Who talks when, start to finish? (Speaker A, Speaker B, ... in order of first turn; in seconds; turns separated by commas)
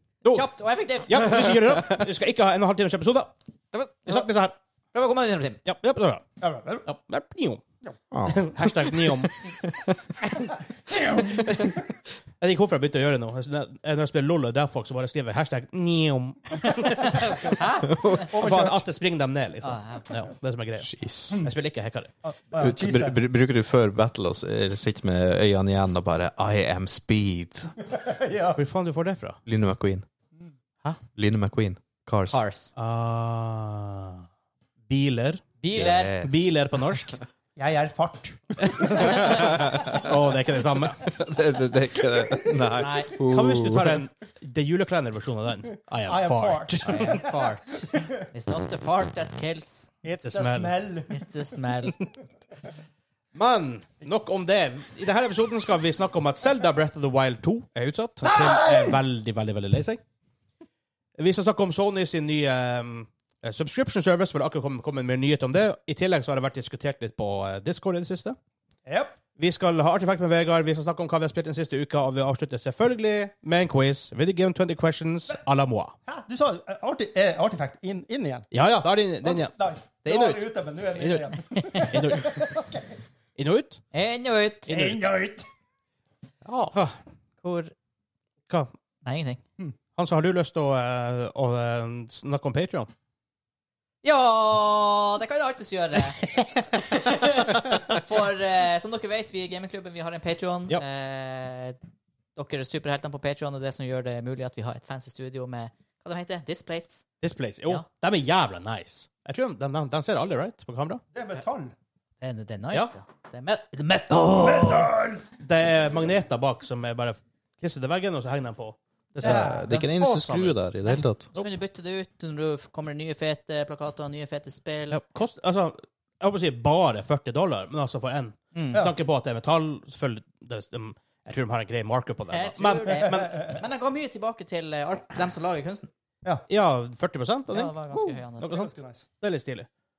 Speaker A: 0.2-1.5, Speaker B: 1.1-3.3, Speaker A: 3.7-4.2, Speaker B: 4.0-4.5, Speaker A: 4.9-5.6, Speaker B: 5.6-6.2, Speaker C: 6.4-6.8, Speaker B: 6.8-7.6, Speaker D: 8.1-8.4, Speaker B: 8.2-9.3, Speaker D: 9.6-10.1, Speaker C: 10.9-11.6, Speaker B: 11.3-11.8, Speaker B: 12.4-17.6, Speaker A: 16.7-18.2, Speaker D: 17.9-18.3, Speaker B: 18.2-22.1, Speaker C: 18.3-18.8, Speaker A: 19.6-20.1, Speaker D: 20.8-21.5, Speaker C: 22.2-23.2, Speaker D: 22.6-27.7, Speaker C: 27.8-28.6, Speaker B: 28.5-29.4, Speaker D: 29.4-30.1, Speaker D: 31.1-32.4, Speaker A: 32.3-32.7, Speaker B: 32.8-34.2, Speaker B: 34.9-35.4, Speaker A: 35.6-36.1, Speaker D: 35.7-36.6, Speaker B: 36.2-37.2, Speaker C: 37.6-39.6, Speaker B: 38.7-41.0, Speaker D: 39.4-40.0, Speaker D: 41.0-44.0, Speaker A: 42.8-43.1, Speaker B: 43.2-47.2, Speaker C: 46.0-48.1, Speaker A: 46.8-49.9, Speaker C: 50.0-51.2, Speaker B: 50.2-50.7, Speaker A: 51.1-52.0, Speaker B: 53.3-60.0, Speaker C: 58.2-58.9, Speaker B: 61.2-68.3, Speaker C: 68.8-69.1, Speaker B: 69.4-75.9, Speaker C: 76.1-78.5, Speaker B: 78.5-82.5, Speaker C: 79.2-82.8, Speaker A: 81.5-82.2, Speaker B: 83.3-83.8, Speaker A: 83.9-84.7, Speaker B: 84.7-85.0, Speaker C: 84.7-85.5, Speaker B: 86.7-87.0, Speaker A: 87.4-87.7, Speaker A: 89.0-89.4, Speaker B: 90.0-92.9, Speaker A: 94.0-96.2, Speaker A: 96.7-101.8, Speaker A: 102.3-107.0, Speaker B: 107.2-111.0, Speaker C: 111.1-111.7, Speaker A: 112.2-114.9, Speaker C: 114.4-115.3, Speaker B: 115.4-119.5, Speaker D: 119.2-121.3, Speaker C: 119.2-119.6, Speaker A: 119.2-125.0, Speaker B: 124.9-133.5, Speaker A: 128.5-128.9, Speaker A: 132.3-135.9, Speaker B: 136.5-137.7, Speaker A: 137.5-138.5, Speaker C: 137.9-139.1, Speaker B: 138.4-139.7